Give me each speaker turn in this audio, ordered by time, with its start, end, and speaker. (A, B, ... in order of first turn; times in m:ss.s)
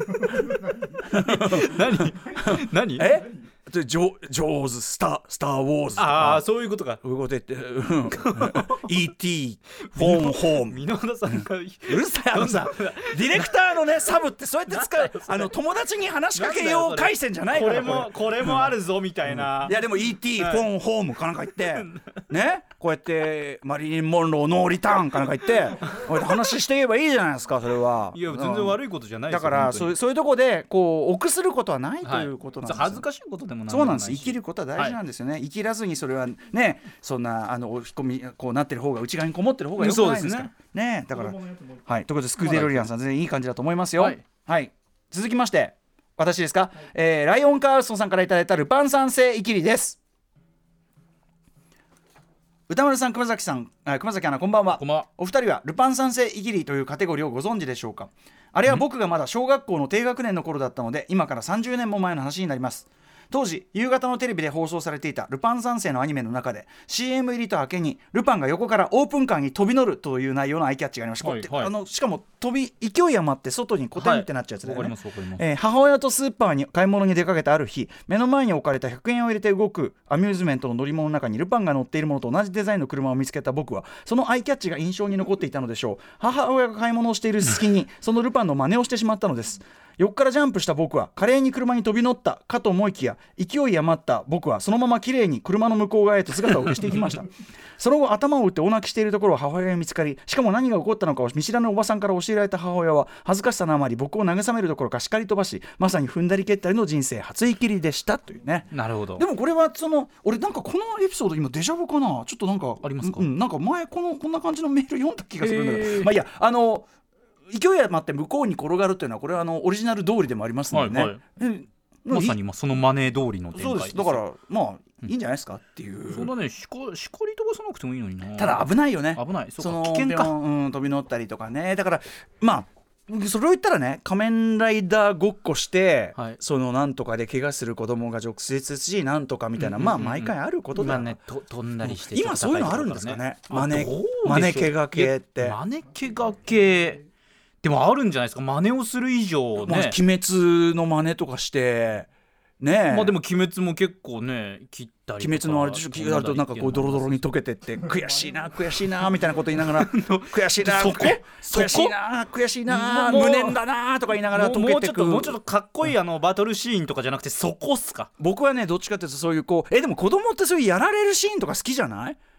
0:01.0-0:03.2 A
0:01.1-0:06.4 B
0:06.0-0:07.0 A
0:07.0-0:18.8 B
0:08.1-0:08.9 A
0:09.9-0:14.1 A
0:14.7-0:15.6 A
0:16.3-0:19.8 A
0:19.3-0:33.0 B
0:20.4-0:20.7 A
0:21.6-0:22.2 A
0:28.1-0:30.0 A
0:32.0-0:35.0 A
0:33.7-0:50.0 B
0:39.8-0:40.5 A
0:42.4-0:42.9 A
0:44.0-0:44.2 A
0:52.7-1:56.8 B
0:54.7-0:55.1 A
1:11.2-1:11.7 A
1:13.9-1:15.4 A
1:48.7-1:49.2 A
1:52.8-1:53.3 A
1:55.4-1:56.1 A
1:57.5-2:02.4 B
2:00.7-2:01.2 A
2:02.1-2:04.2 A
2:03.5-2:06.3 B
2:06.1-2:10.3 A
2:08.4-2:21.1 B
2:19.6-2:27.0 A
2:21.8-2:25.6 B
2:27.6-2:30.0 A
2:29.6-2:32.1 B
2:32.6-2:33.1 B
2:32.9-2:37.2 A
2:35.2-2:45.4 B
2:39.7-2:42.0 A
2:42.7-2:43.6 A
2:44.3-2:48.1 A
2:48.2-2:52.2 B